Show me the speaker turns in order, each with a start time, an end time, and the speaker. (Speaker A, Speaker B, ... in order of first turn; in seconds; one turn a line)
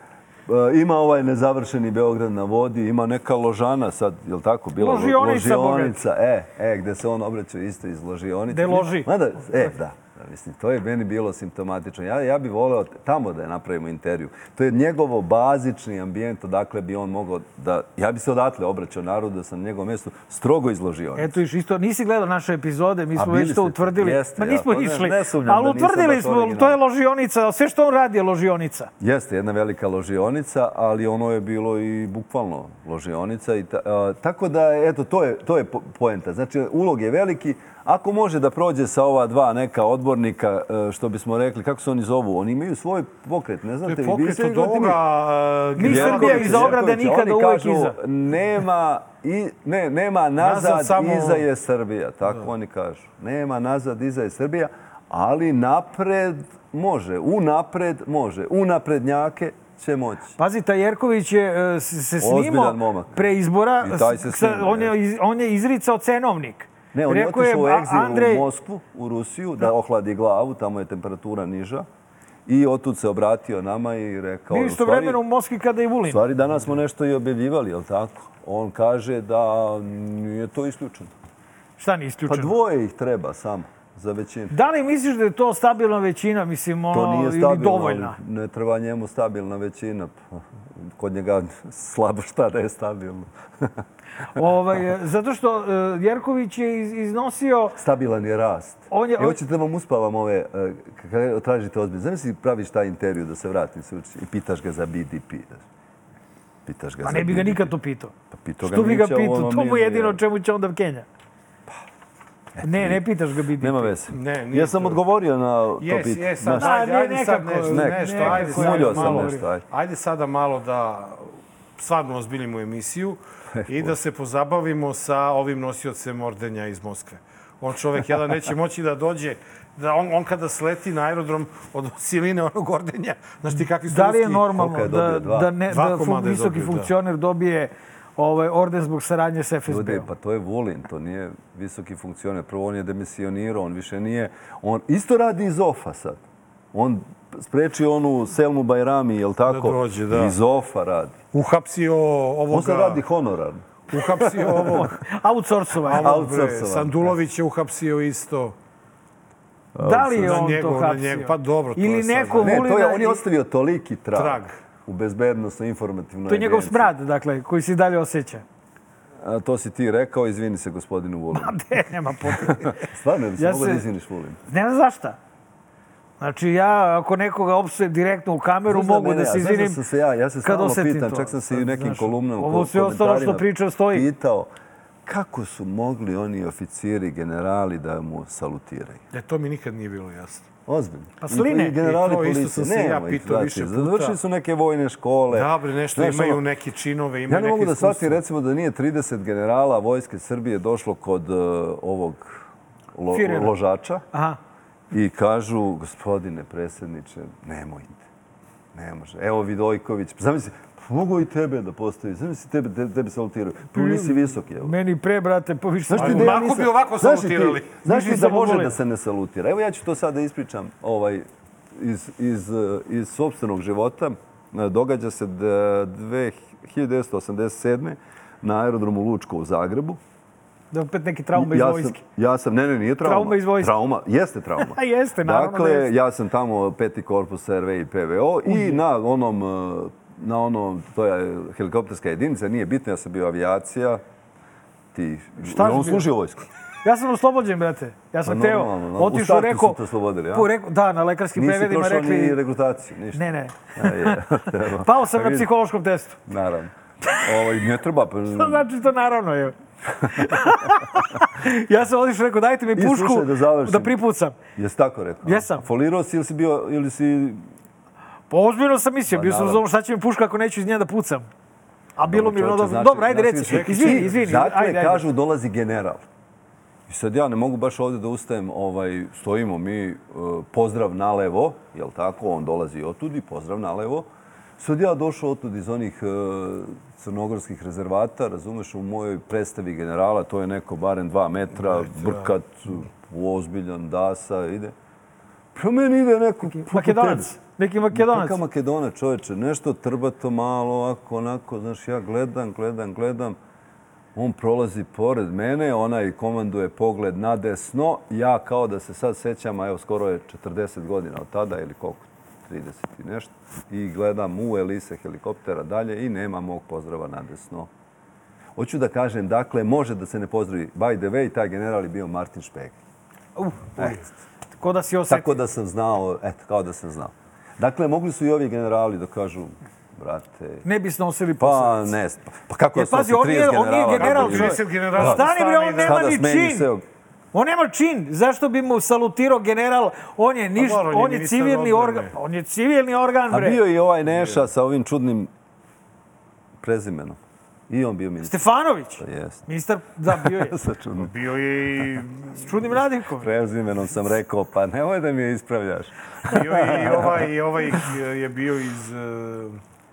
Speaker A: 0.5-21.4
Speaker B: 4.8-6.0
Speaker B: 8.5-9.1
Speaker B: 21.1-28.9
Speaker A: 23.1-26.8
Speaker A: 29.0-45.0
Speaker C: 43.8-46.8
Speaker B: 45.8-48.0
Speaker A: 45.8-60.3
Speaker C: 50.4-51.5
Speaker B: 60.4-68.5
Speaker A: 62.2-64.9
Speaker A: 66.9-71.9
Speaker A: 72.5-75.2
Speaker B: 74.5-76.2
Speaker A: 76.1-81.1
Speaker B: 81.8-82.5
Speaker A: 82.3-84.5
Speaker B: 84.5-88.2
Speaker A: 86.9-93.7
Speaker B: 94.3-97.7
Speaker A: 97.8-105.6
Speaker B: 98.9-99.4
Speaker A: 106.6-107.7
Speaker B: 107.0-111.1
Speaker A: 108.3-110.2
Speaker A: 112.5-113.0
Speaker B: 112.6-113.9
Speaker A: 113.6-116.8
Speaker C: 114.1-115.0
Speaker C: 115.8-134.5
Speaker B: 116.5-119.5
Speaker A: 117.7-119.6
Speaker A: 123.5-123.9
Speaker B: 133.9-140.1
Speaker A: 134.4-135.5
Speaker C: 135.7-136.9
Speaker A: 139.7-146.2
Speaker A: 146.7-151.2
Speaker C: 149.5-150.4
Speaker C: 151.3-153.0
Speaker A: 152.5-154.8
Speaker C: 153.9-154.9
Speaker B: 154.7-156.2
Speaker C: 155.8-158.6
Speaker A: 155.9-157.1
Speaker A: 159.8-160.4
Speaker B: 159.8-163.2
Speaker C: 160.2-162.7
Speaker A: 162.4-166.9
Speaker C: 164.1-164.6
Speaker B: 166.3-168.4
Speaker A: 169.2-171.6
Speaker B: 171.3-172.7
Speaker A: 172.3-174.4
Speaker B: 173.4-173.8
Speaker B: 174.5-175.2
Speaker B: 176.2-179.8
Speaker A: 178.7-184.5
Speaker B: 180.4-184.1
Speaker A: 185.0-189.0
Speaker C: 189.1-190.5
Speaker A: 190.7-196.4
Speaker B: 191.2-191.8
Speaker C: 191.8-194.2
Speaker C: 195.3-198.2
Speaker A: 197.3-204.0
Speaker B: 203.1-203.6
Speaker B: 204.1-204.4
Speaker A: 204.9-208.1
Speaker A: 208.7-214.7
Speaker B: 213.7-216.4
Speaker A: 215.9-230.0
Speaker C: 215.9-217.9
Speaker B: 217.8-218.8
Speaker B: 230.7-232.0
Speaker A: 231.3-244.0
Speaker B: 233.0-233.7
Speaker B: 234.6-235.9
Speaker B: 238.4-238.8
Speaker A: 244.9-246.4
Speaker B: 245.4-246.1
Speaker B: 246.8-252.4
Speaker A: 248.2-250.5
Speaker A: 251.3-253.2
Speaker B: 253.1-254.2
Speaker A: 253.7-255.5
Speaker B: 254.8-256.2
Speaker A: 256.3-258.6
Speaker B: 258.3-259.5
Speaker B: 260.1-264.4
Speaker A: 260.1-260.5
Speaker A: 262.7-263.9
Speaker A: 264.6-267.4
Speaker B: 265.2-265.6
Speaker B: 268.3-271.3
Speaker A: 269.1-269.6
Speaker B: 272.0-275.1
Speaker A: 272.0-276.1
Speaker C: 273.5-274.4
Speaker A: 276.9-294.7
Speaker C: 291.6-292.3
Speaker A: 295.5-297.3
Speaker B: 296.4-298.4
Speaker A: 297.9-303.4
Speaker A: 304.1-317.7
Speaker A: 318.6-322.8
Speaker B: 323.4-324.0
Speaker A: 323.8-324.0
Speaker B: 324.6-325.4
Speaker A: 325.1-330.6
Speaker B: 330.6-331.9
Speaker A: 331.4-335.3
Speaker B: 332.7-336.7
Speaker C: 334.0-336.0
Speaker A: 335.8-336.8
Speaker B: 337.3-343.6
Speaker C: 340.6-342.1
Speaker A: 343.3-345.3
Speaker C: 344.1-344.4
Speaker A: 346.6-349.4
Speaker B: 348.2-350.5
Speaker A: 350.1-351.1
Speaker C: 351.0-352.4
Speaker B: 352.3-353.3
Speaker A: 353.2-357.2
Speaker C: 356.3-359.6